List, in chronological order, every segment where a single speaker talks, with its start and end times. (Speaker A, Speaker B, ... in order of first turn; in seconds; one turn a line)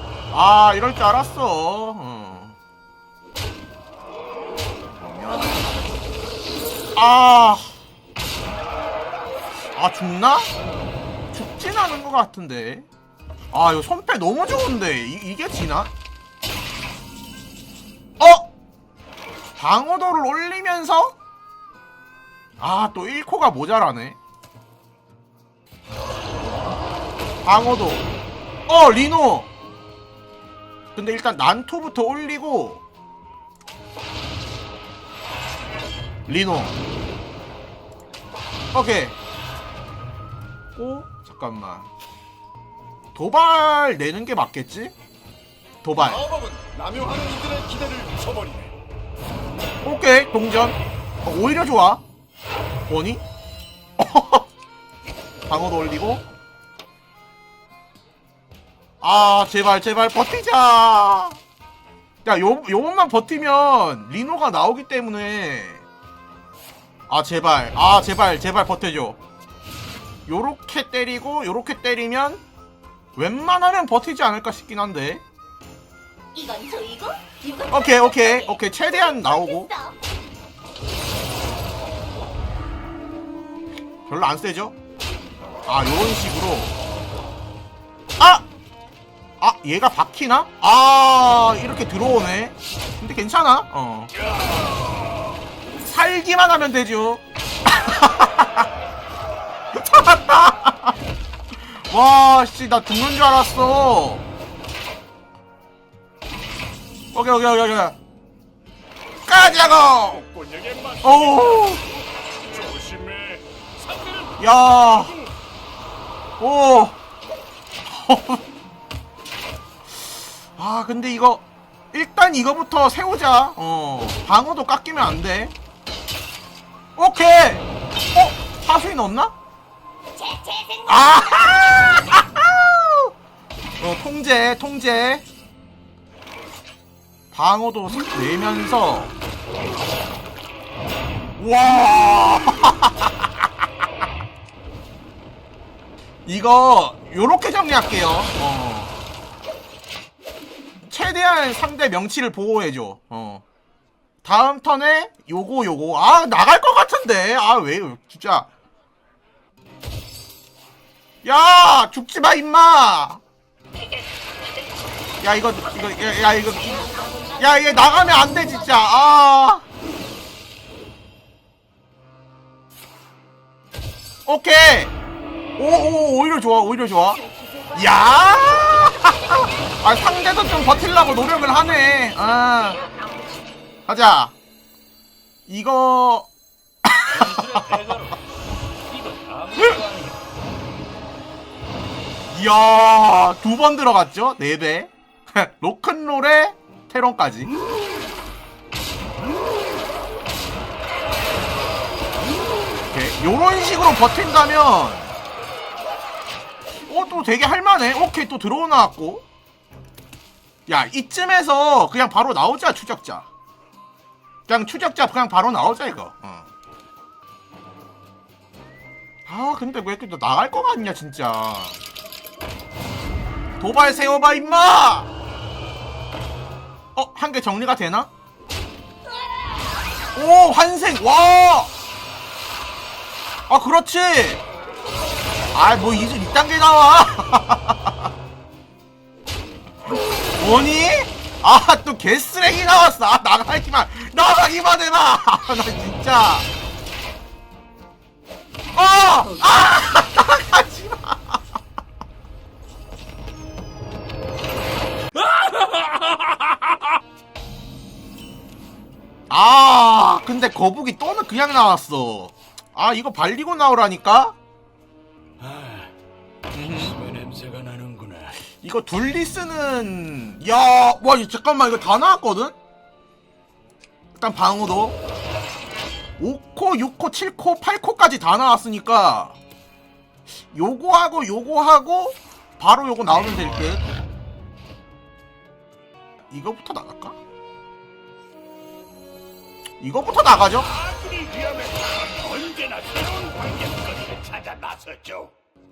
Speaker A: 0.3-2.6
Speaker A: 5.0-5.6
Speaker A: 7.0-7.7
Speaker A: 9.8-10.5
Speaker A: 11.3-12.9
Speaker A: 13.5-15.9
Speaker A: 18.2-18.5
Speaker A: 19.6-21.2
Speaker A: 22.6-24.2
Speaker A: 27.4-28.1
Speaker A: 28.7-29.5
Speaker A: 30.9-32.8
Speaker A: 36.3-36.8
Speaker A: 38.7-39.2
Speaker A: 40.8-41.9
Speaker A: 43.1-44.9
Speaker A: 45.8-46.3
Speaker B: 46.1-48.7
Speaker C: 47.0-48.2
Speaker A: 49.8-52.0
Speaker A: 52.9-53.2
Speaker A: 54.0-54.5
Speaker A: 55.5-56.2
Speaker A: 59.0-61.4
Speaker A: 62.2-65.8
Speaker A: 67.1-69.2
Speaker A: 70.3-72.4
Speaker A: 73.2-75.2
Speaker D: 76.3-80.0
Speaker A: 77.7-79.7
Speaker A: 84.1-84.8
Speaker A: 85.7-86.8
Speaker A: 88.2-88.5
Speaker A: 89.4-94.1
Speaker A: 95.8-98.7
Speaker A: 99.7-100.9
Speaker A: 101.6-104.2
Speaker A: 107.1-108.0
Speaker A: 109.2-110.3
Speaker B: 109.9-112.0
Speaker C: 110.4-111.0
Speaker A: 111.0-111.8
Speaker B: 112.5-113.6
Speaker C: 112.5-114.3
Speaker A: 114.4-115.3
Speaker A: 116.4-117.0
Speaker A: 117.8-118.4
Speaker A: 120.5-125.5
Speaker A: 127.0-129.3
Speaker D: 130.2-130.8
Speaker A: 130.8-133.1
Speaker A: 133.8-135.3
Speaker A: 137.3-139.2
Speaker A: 141.4-143.5
Speaker A: 146.3-148.9
Speaker A: 150.8-153.4
Speaker A: 154.2-158.5
Speaker A: 161.2-163.2
Speaker A: 165.2-169.7
Speaker D: 166.8-168.5
Speaker A: 174.3-174.9
Speaker A: 175.6-182.9
Speaker D: 177.3-177.7
Speaker A: 183.9-184.3
Speaker A: 185.5-186.3
Speaker A: 186.8-187.3
Speaker C: 187.1-188.2
Speaker C: 188.9-190.2
Speaker A: 192.3-197.5
Speaker A: 202.9-205.1
Speaker A: 206.9-209.3
Speaker A: 210.7-213.3
Speaker A: 214.5-216.5
Speaker A: 219.3-221.8
Speaker A: 223.6-225.1
Speaker A: 226.9-228.1
Speaker A: 230.2-231.7
Speaker A: 233.5-234.4
Speaker A: 235.5-238.1
Speaker A: 240.3-246.5
Speaker A: 248.7-251.4
Speaker C: 255.2-256.7
Speaker A: 259.3-264.4
Speaker C: 265.4-265.9
Speaker A: 266.5-267.0
Speaker C: 266.6-268.4
Speaker A: 268.6-272.6
Speaker A: 274.1-275.0
Speaker A: 276.2-279.4
Speaker A: 280.5-283.9
Speaker A: 286.3-287.2
Speaker A: 289.8-290.8
Speaker C: 290.7-295.2